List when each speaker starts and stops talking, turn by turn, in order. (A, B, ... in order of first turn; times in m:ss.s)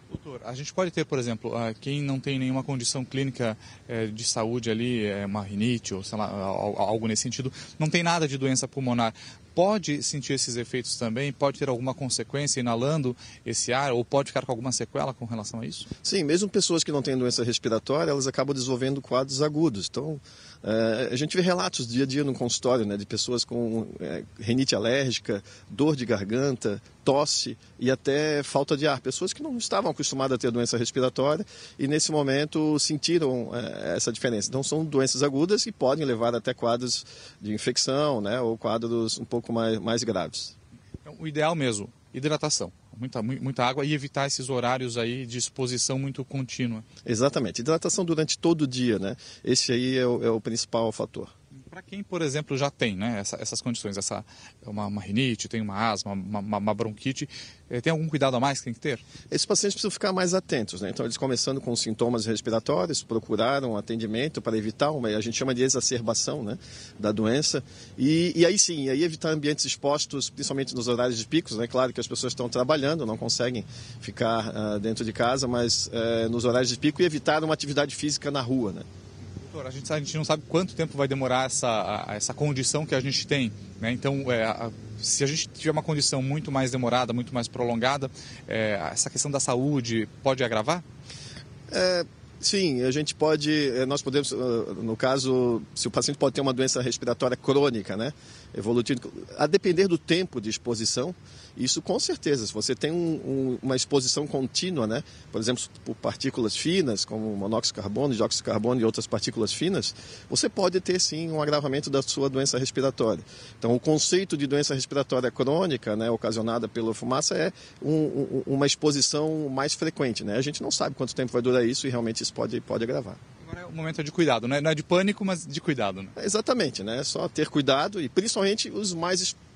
0:00.1-0:15.9 A
0:16.0-0:40.5 B
0:41.0-0:46.8 A
0:47.0-0:51.3 B
0:51.6-0:59.1 A
0:59.3-1:18.8 B
1:19.3-1:30.8 A
1:31.7-2:03.2 B
2:03.4-2:06.1 A
2:06.2-2:09.4 B